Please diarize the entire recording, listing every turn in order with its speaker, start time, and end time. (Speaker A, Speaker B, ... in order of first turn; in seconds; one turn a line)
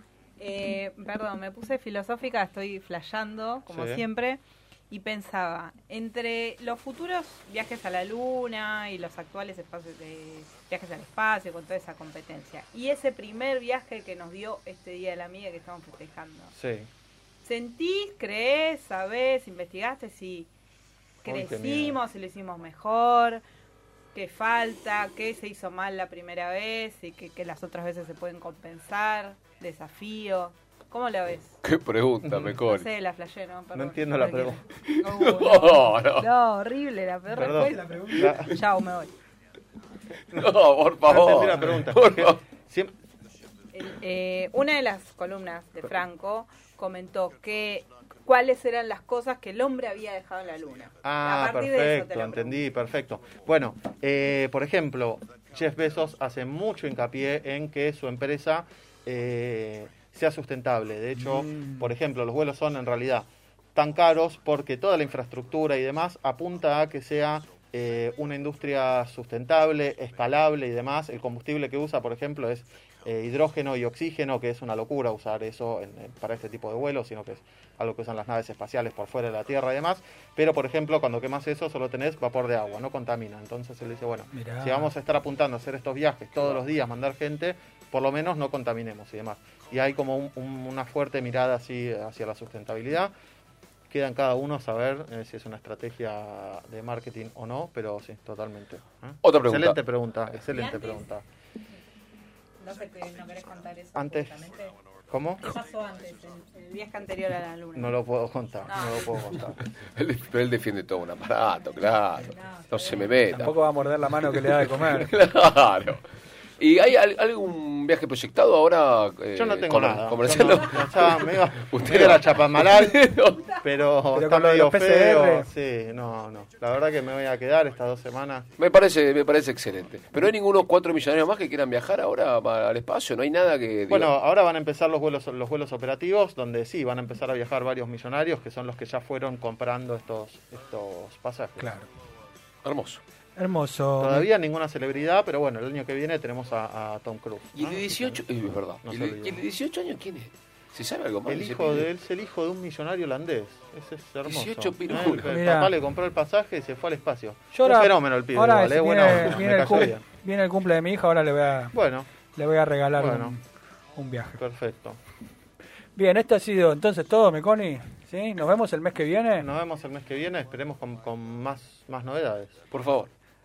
Speaker A: 0.4-16.5
Speaker B: 3.7-4.0
Speaker B: 16.5-16.9
Speaker A: 17.4-20.5
Speaker A: 21.2-23.4
Speaker B: 21.2-22.0
Speaker A: 24.1-31.6
Speaker C: 31.6-32.9
Speaker A: 32.4-39.1
Speaker B: 33.7-34.6
Speaker C: 34.9-36.3
Speaker B: 37.3-38.5
Speaker D: 37.5-38.3
Speaker B: 40.3-42.9
Speaker C: 40.3-42.4
Speaker A: 43.7-52.6
Speaker B: 51.0-93.1
Speaker D: 61.3-61.8
Speaker D: 84.3-84.9
Speaker B: 93.9-101.2
Speaker C: 99.2-99.8
Speaker E: 100.5-101.0
Speaker E: 102.6-104.7
Speaker B: 103.9-104.5
Speaker B: 105.1-105.6
Speaker E: 105.4-106.5
Speaker A: 106.5-108.0
Speaker B: 107.7-109.7
Speaker E: 108.7-109.3
Speaker C: 109.9-113.5
Speaker E: 112.2-113.2
Speaker D: 113.3-115.1
Speaker C: 114.3-116.0
Speaker C: 116.6-123.5
Speaker B: 119.3-123.0
Speaker B: 123.6-128.5
Speaker D: 124.1-125.5
Speaker C: 128.6-134.1
Speaker B: 133.9-141.8
Speaker D: 141.6-141.9
Speaker C: 142.6-143.0
Speaker D: 143.3-144.3
Speaker B: 144.0-148.2
Speaker C: 147.5-151.9
Speaker B: 148.8-149.4
Speaker B: 151.2-160.0
Speaker C: 154.2-155.3
Speaker D: 155.3-155.7
Speaker D: 157.5-161.7
Speaker B: 161.7-162.1
Speaker D: 162.3-163.4
Speaker B: 162.9-163.3
Speaker D: 163.9-164.4
Speaker B: 164.4-165.0
Speaker D: 165.9-169.5
Speaker B: 169.4-172.6
Speaker C: 172.7-173.1